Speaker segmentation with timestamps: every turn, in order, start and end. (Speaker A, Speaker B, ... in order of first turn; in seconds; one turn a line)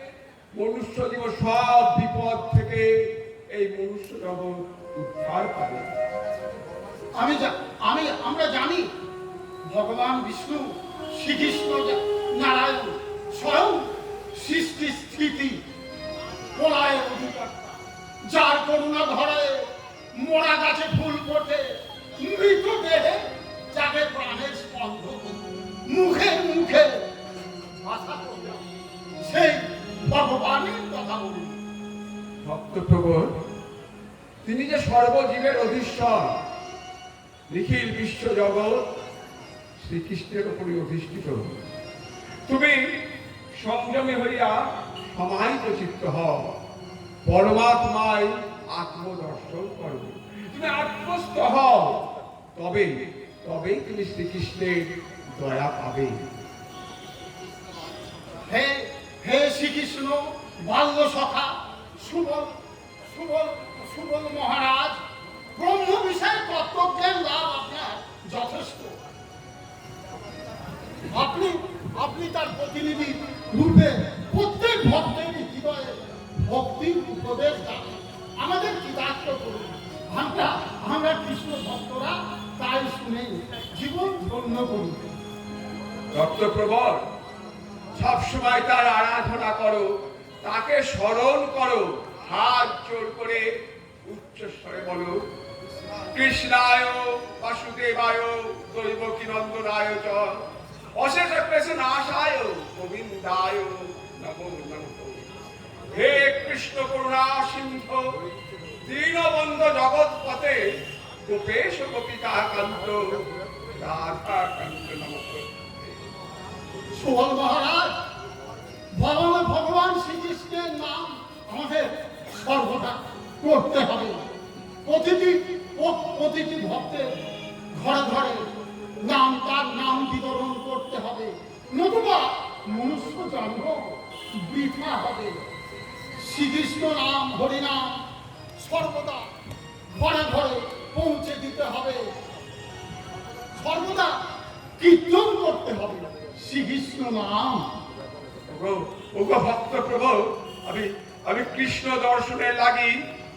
Speaker A: 0.6-2.9
Speaker A: 3.5-5.9
Speaker B: 7.2-8.9
Speaker B: 9.7-13.8
Speaker B: 14.3-15.6
Speaker B: 16.6-19.6
Speaker B: 20.2-21.6
Speaker B: 22.2-23.2
Speaker B: 23.7-25.3
Speaker B: 25.9-26.9
Speaker B: 27.8-28.6
Speaker B: 29.2-31.6
Speaker A: 32.4-33.3
Speaker A: 34.4-36.3
Speaker A: 37.5-38.9
Speaker A: 39.8-41.4
Speaker A: 42.5-42.8
Speaker A: 43.6-46.5
Speaker A: 47.3-52.0
Speaker A: 52.5-56.2
Speaker B: 58.5-62.5
Speaker B: 63.1-65.0
Speaker B: 65.6-68.9
Speaker B: 71.1-85.0
Speaker A: 86.1-87.0
Speaker A: 87.9-89.9
Speaker A: 90.4-93.4
Speaker A: 94.1-95.2
Speaker A: 96.1-100.4
Speaker A: 101.0-105.3
Speaker A: 105.9-108.1
Speaker A: 108.8-110.6
Speaker A: 111.3-116.0
Speaker B: 116.9-117.9
Speaker B: 119.0-124.2
Speaker B: 124.8-127.1
Speaker B: 127.8-128.4
Speaker B: 129.1-135.5
Speaker B: 136.2-138.0
Speaker B: 138.6-139.3
Speaker B: 139.9-142.0
Speaker B: 143.6-144.2
Speaker B: 144.8-147.6
Speaker A: 148.5-152.9